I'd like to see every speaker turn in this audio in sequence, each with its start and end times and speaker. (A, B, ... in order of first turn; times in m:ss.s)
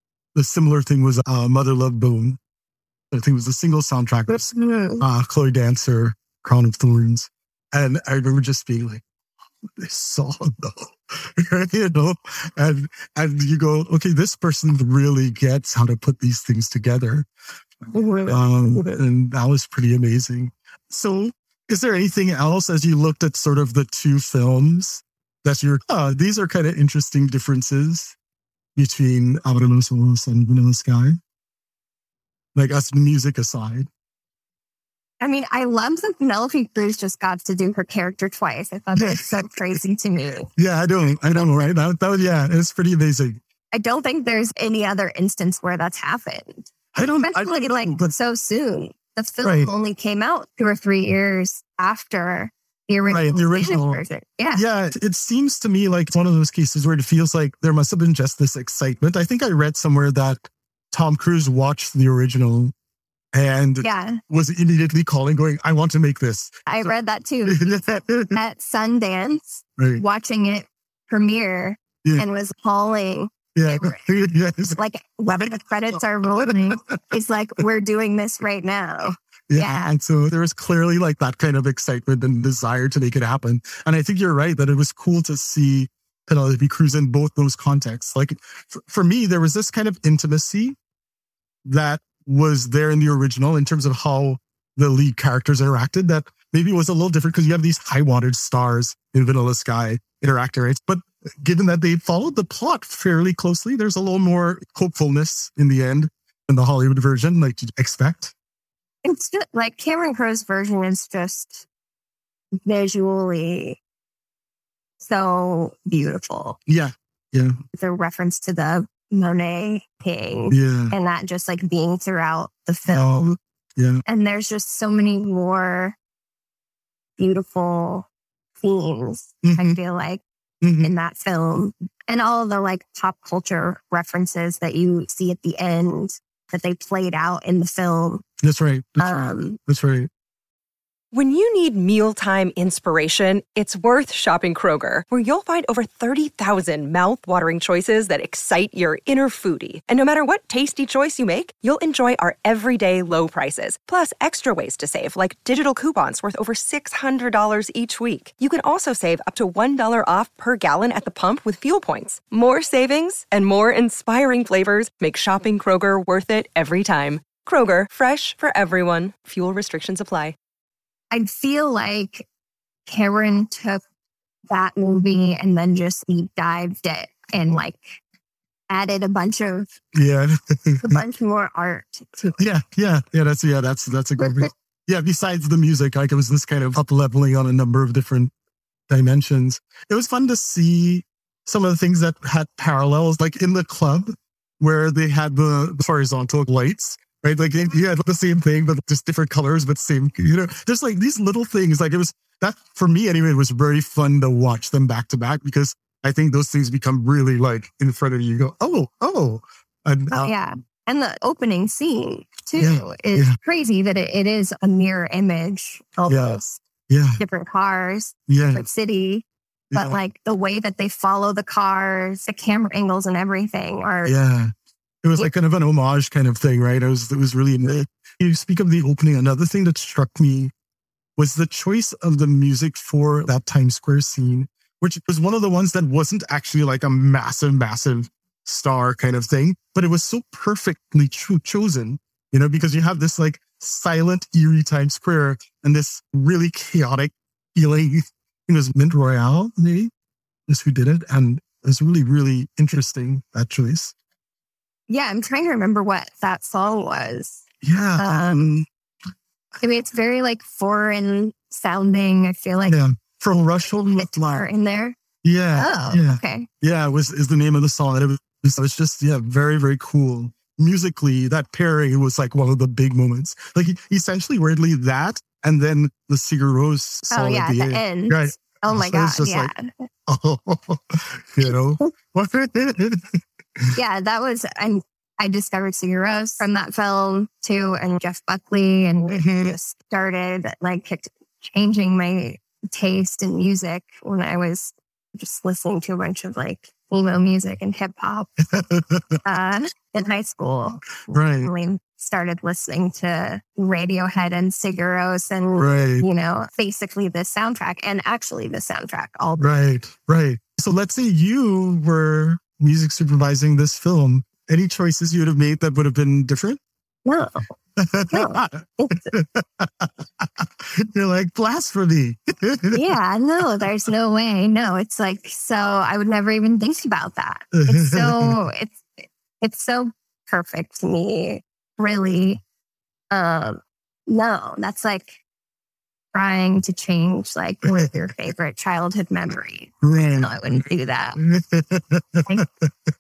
0:00.4-0:02.4 A
0:03.1-0:09.0 A
0:04.3-0:05.1 B
0:09.8-0:17.3 A
0:17.9-0:18.9 B
0:18.3-0:28.2 A
0:28.8-0:31.2 A
0:32.6-0:33.9 A
0:35.2-0:40.5 B
0:39.0-0:39.8 A
0:40.6-0:43.4 A
0:43.7-0:54.6 B
0:47.0-0:48.1 A
0:49.4-0:49.7 A
0:53.1-1:02.7 A
1:03.3-1:06.9 A
1:03.8-1:04.2 B
1:06.7-1:07.7 B
1:07.5-1:08.4 A
1:08.3-1:14.0 B
1:09.8-1:10.0 A
1:13.6-1:14.8 A
1:14.7-1:19.9 B
1:16.4-1:17.0 A
1:19.5-1:30.8 A
1:31.6-1:48.3 A
1:49.0-1:51.7 B
1:52.7-1:53.8 B
1:55.0-1:56.6 B
1:56.7-1:57.6 A
1:57.8-2:03.1 B
2:00.5-2:01.0 A
2:02.9-2:04.0 A
2:04.1-2:06.0 B
2:07.2-2:08.1 B
2:08.6-2:10.2 B
2:09.4-2:09.8 A
2:10.6-2:10.9 A
2:10.8-2:18.2 B
2:18.4-2:19.1 A
2:19.0-2:19.6 B
2:19.6-2:20.1 A
2:21.1-2:50.4 C
2:51.1-2:52.3 B
2:52.9-2:53.8 B
2:54.5-2:58.0 B
2:58.7-2:59.7 B
2:59.9-3:01.0 A
3:00.8-3:02.4 B
3:02.4-3:08.3 A
3:04.2-3:04.5 B
3:08.9-3:30.4 A
3:30.1-3:36.6 B
3:32.6-3:33.4 A
3:36.1-3:37.2 A
3:37.2-3:44.1 B
3:38.3-3:38.7 A
3:39.7-3:40.0 A
3:44.0-3:50.5 A
3:51.2-4:09.9 A
4:10.5-4:13.9 A
4:14.9-4:17.4 B
4:17.6-4:18.3 A
4:18.0-4:18.7 B
4:19.6-4:22.8 B
4:22.7-4:24.4 A
4:23.8-4:25.0 B
4:25.2-4:39.5 A
4:25.6-4:26.5 B
4:37.1-4:39.7 B
4:40.1-4:43.8 A
4:43.8-4:58.3 B
4:49.1-4:49.6 A
4:58.5-4:59.2 A
4:59.2-5:09.5 B
5:01.1-5:01.5 A
5:05.6-5:06.1 A
5:09.4-5:16.6 A
5:17.1-5:17.4 B
5:17.8-5:22.9 A
5:18.1-5:19.1 B
5:22.7-5:28.9 B
5:27.5-5:28.4 A
5:29.4-5:32.4 B
5:33.1-5:35.2 B
5:36.1-5:41.2 B
5:37.7-5:38.1 A
5:39.8-5:40.3 A
5:41.2-5:42.7 A